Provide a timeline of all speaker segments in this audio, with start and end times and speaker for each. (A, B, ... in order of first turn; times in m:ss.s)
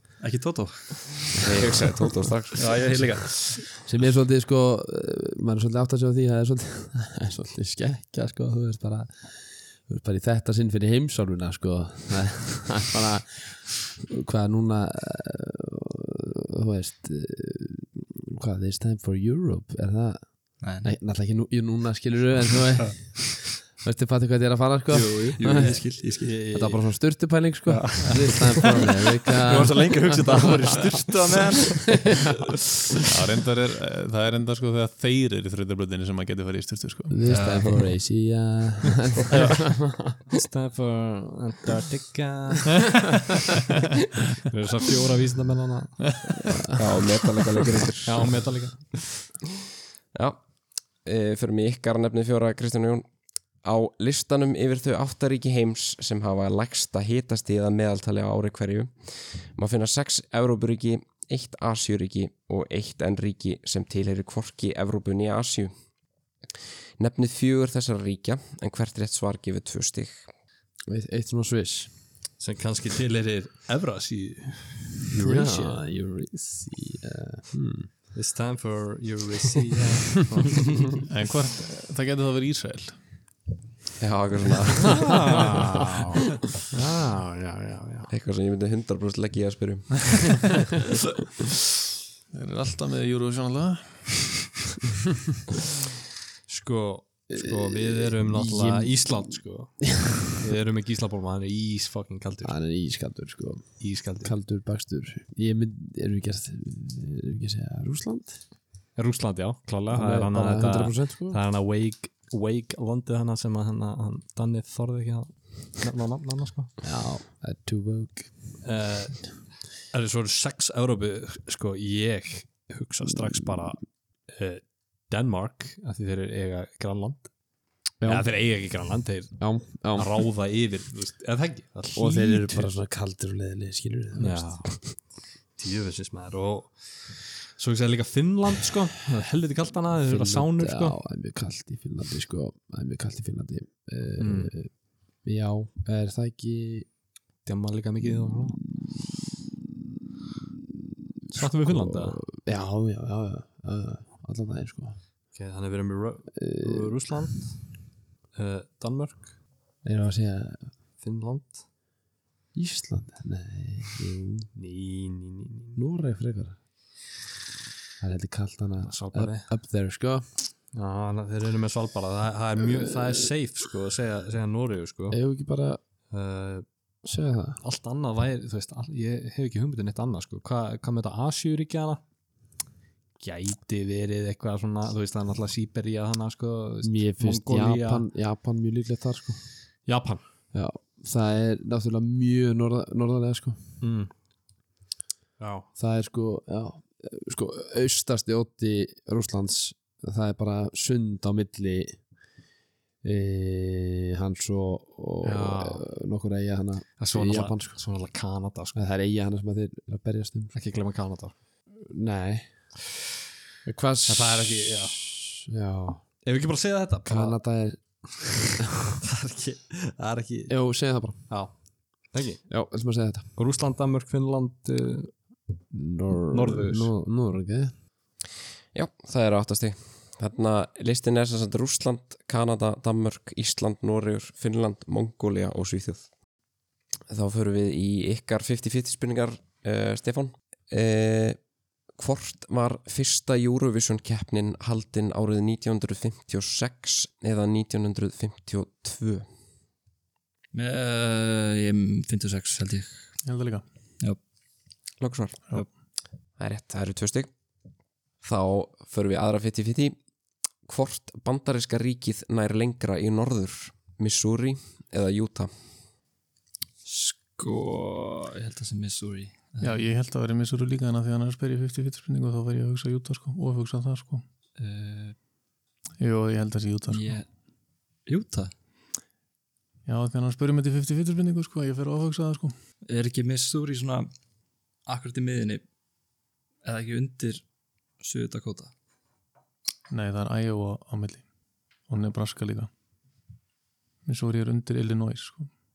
0:00.2-0:01.6 A
0:01.4-0:02.7 B
0:02.6-0:03.7 A
0:03.8-0:25.9 C
0:20.6-0:20.9 A
0:24.9-0:26.4 A
0:25.6-0:26.8 D
0:26.5-0:30.1 C
0:27.7-0:28.6 A
0:29.5-0:32.1 A
0:33.0-0:37.2 E
0:37.1-0:40.2 C
0:37.2-0:38.0 A
0:39.3-0:39.8 A
0:40.3-0:42.9 D
0:44.5-0:46.0 D
0:46.5-0:46.8 C
0:46.8-0:48.3 B
0:48.0-0:49.0 D
0:50.1-0:50.4 B
0:51.0-0:53.1 B
0:53.6-1:05.7 B
1:07.0-1:10.3 B
1:10.9-1:12.0 C
1:12.4-1:15.8 D
1:15.2-1:17.9 C
1:18.1-1:21.0 D
1:21.1-1:23.0 E
1:24.0-1:25.2 B
1:24.9-1:26.2 D
1:26.7-1:28.1 D
1:28.1-1:30.6 B
1:32.3-1:34.4 E
1:36.5-1:42.6 D
1:37.3-1:39.4 C
1:42.4-1:48.5 C
1:43.8-1:44.3 D
1:49.0-1:56.8 D
1:49.9-1:51.4 C
1:56.8-1:58.6 C
1:58.6-2:07.3 D
2:08.0-2:08.3 C
2:08.0-2:12.7 D
2:09.4-2:10.2 C
2:12.0-2:14.8 C
2:14.2-2:21.0 D
2:20.1-2:26.9 C
2:24.2-2:24.5 D
2:27.4-2:28.6 D
2:28.2-2:29.4 C
2:31.3-2:35.0 C
2:31.4-2:32.2 D
2:35.3-2:37.8 D
2:36.4-2:37.0 C
2:38.3-2:39.4 D
2:39.8-2:40.8 C
2:41.0-2:41.6 D
2:42.5-2:44.5 C
2:44.6-2:45.8 D
2:45.8-2:46.6 C
2:48.0-2:50.3 C
2:48.8-2:49.5 D
2:50.7-2:55.2 D
2:55.1-2:55.8 C
2:56.1-2:56.7 D
2:57.0-2:57.6 C
2:57.6-3:02.0 D
3:03.2-3:08.1 D
3:06.8-3:09.5 C
3:09.8-3:10.2 D
3:10.5-3:13.8 C
3:13.8-3:14.1 D
3:15.4-3:15.7 D
3:15.8-3:22.0 C
3:23.0-3:27.8 C
3:25.2-3:25.9 D
3:27.0-3:28.8 D
3:28.7-3:30.6 C
3:30.5-3:31.3 D
3:31.8-3:32.8 C
3:33.6-3:36.1 C
3:34.1-3:35.0 D
3:36.2-3:37.4 D
3:37.0-3:38.5 C
3:39.2-3:42.6 D
3:40.5-3:41.6 C
3:42.5-3:43.3 C
3:43.3-3:45.2 D
3:45.7-3:47.7 C
3:46.3-3:46.9 D
3:48.7-3:56.1 B
3:57.1-4:01.4 B
4:02.0-4:09.3 B
4:10.5-4:13.1 A
4:13.2-4:13.6 E
4:15.0-4:15.4 B
4:16.4-4:17.3 B
4:18.2-4:20.0 B
4:20.6-4:25.5 B
4:26.8-4:29.9 A
4:29.6-4:34.2 E
4:34.6-4:35.2 A
4:36.0-4:37.2 E
4:36.9-4:37.3 A
4:38.1-4:38.5 A
4:39.9-4:42.5 E
4:42.9-4:44.1 A
4:44.9-4:45.6 A
4:46.6-4:47.4 A
4:48.0-4:48.7 A
4:49.9-4:51.3 E
4:51.9-4:52.7 E
4:54.0-4:55.5 E